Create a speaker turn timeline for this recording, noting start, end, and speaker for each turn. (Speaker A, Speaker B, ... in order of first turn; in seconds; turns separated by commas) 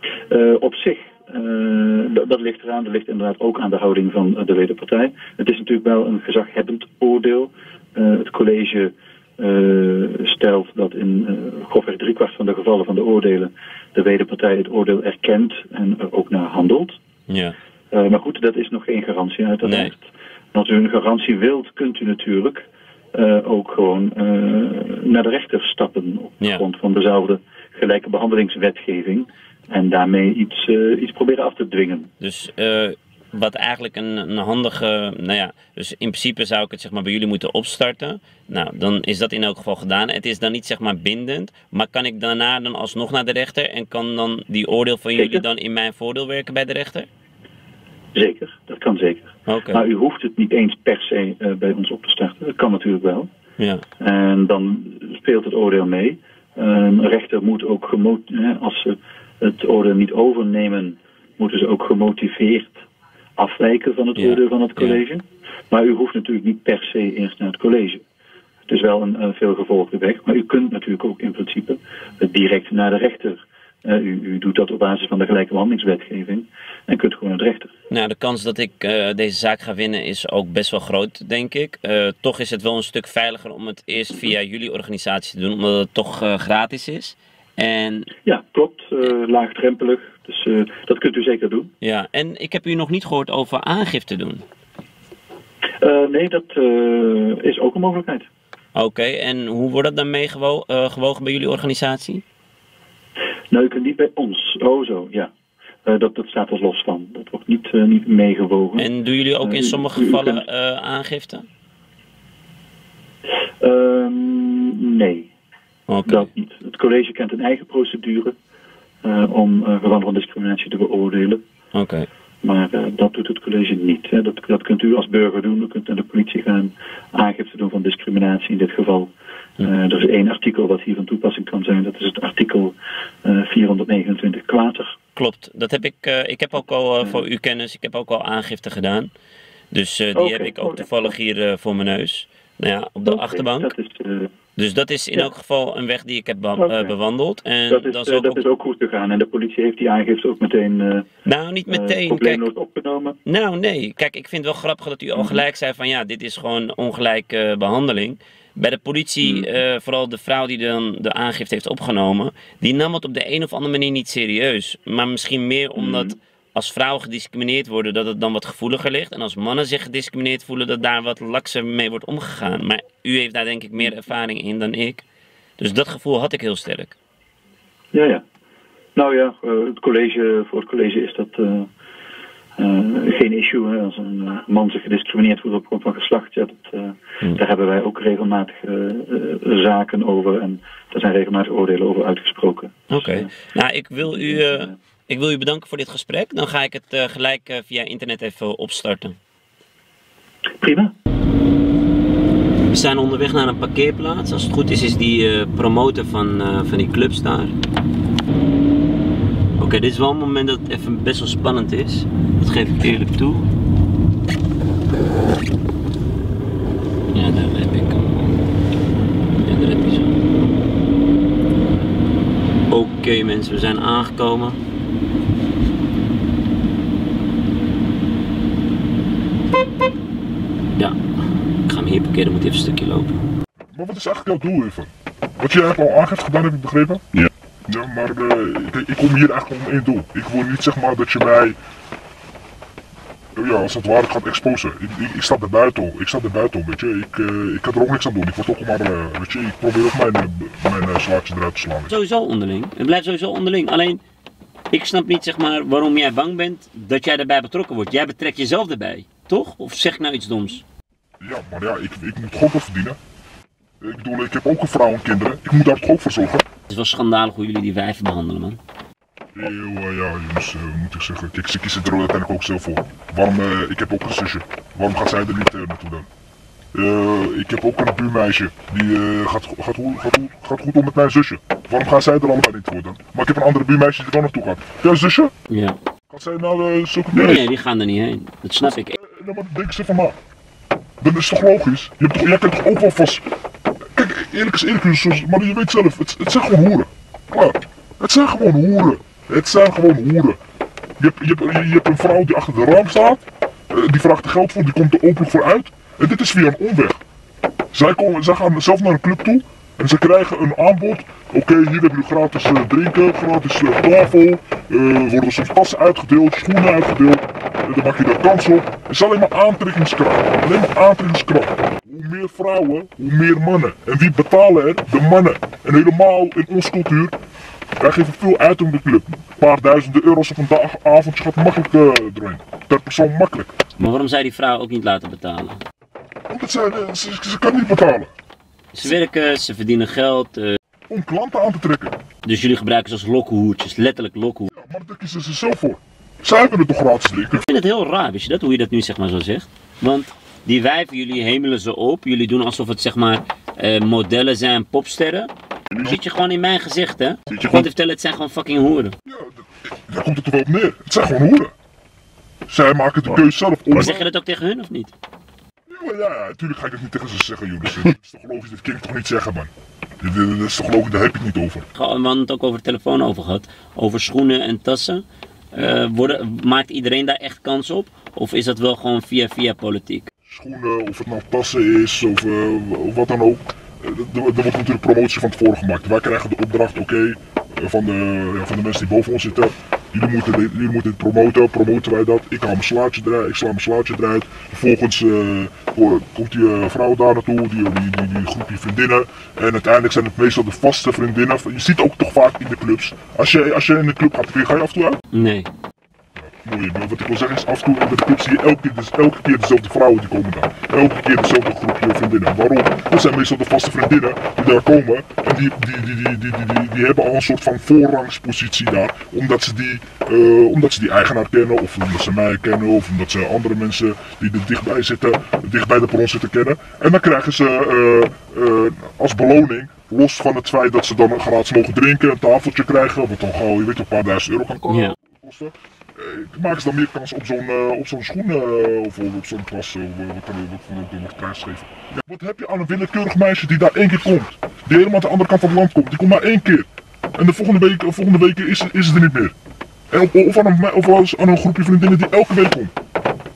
Speaker A: 0.3-17.0, Speaker B: 17.3-17.6, Speaker A: 17.9-32.1, Speaker B: 19.6-19.9, Speaker B: 32.2-47.1, Speaker A: 45.2-45.4, Speaker A: 48.1-53.3, Speaker B: 49.5-49.8, Speaker B: 53.6-53.8, Speaker A: 54.0-62.8, Speaker A: 63.4-68.0, Speaker B: 64.2-65.0, Speaker A: 68.7-77.7, Speaker B: 77.9-88.1, Speaker A: 88.2-91.7, Speaker B: 91.8-94.4, Speaker A: 95.8-98.3, Speaker B: 98.8-102.2, Speaker A: 103.5-105.3, Speaker A: 105.8-108.9, Speaker B: 108.8-111.5, Speaker A: 109.4-110.4, Speaker A: 113.6-115.3, Speaker B: 115.9-116.3, Speaker A: 116.1-118.3, Speaker A: 119.0-121.4, Speaker B: 121.7-122.1, Speaker A: 122.4-134.9, Speaker B: 135.2-139.1, Speaker B: 139.7-143.7, Speaker A: 140.2-141.1, Speaker A: 143.1-144.3, Speaker B: 144.6-148.4, Speaker A: 146.6-146.9, Speaker A: 147.7-151.1, Speaker B: 151.2-152.5, Speaker A: 151.7-153.2, Speaker B: 153.3-175.0, Speaker A: 165.8-166.2, Speaker B: 175.6-177.0, Speaker A: 177.9-178.2, Speaker A: 179.0-181.7, Speaker A: 182.6-193.3, Speaker B: 192.9-199.2, Speaker A: 194.0-194.8, Speaker A: 200.6-200.9, Speaker B: 202.7-207.5, Speaker B: 209.6-213.5, Speaker B: 217.1-218.4, Speaker B: 219.4-220.2, Speaker B: 222.7-224.6, Speaker B: 231.7-233.2, Speaker C: 233.7-241.6, Speaker C: 243.4-251.9, Speaker B: 251.9-254.0, Speaker B: 254.7-260.6, Speaker C: 261.2-263.0, Speaker C: 263.8-266.4, Speaker B: 266.7-268.6, Speaker C: 269.4-276.1, Speaker C: 276.7-285.3, Speaker B: 285.5-285.8, Speaker C: 286.1-287.5, Speaker B: 287.1-289.0, Speaker C: 288.6-290.2, Speaker C: 291.0-293.2, Speaker C: 293.9-300.4, Speaker C: 301.0-307.0, Speaker C: 307.7-327.2, Speaker C: 327.8-333.5, Speaker B: 333.8-335.6, Speaker C: 336.3-338.1, Speaker B: 338.8-340.6, Speaker C: 340.9-341.9, Speaker B: 342.3-344.5, Speaker C: 344.5-347.5, Speaker B: 347.4-358.9, Speaker C: 359.1-361.5, Speaker C: 362.5-364.0, Speaker B: 363.8-364.9, Speaker C: 365.7-369.5, Speaker C: 370.0-371.7, Speaker B: 371.8-380.1, Speaker C: 380.3-405.0, Speaker B: 405.1-405.5, Speaker C: 406.2-449.3, Speaker B: 434.7-435.0, Speaker C: 449.9-452.7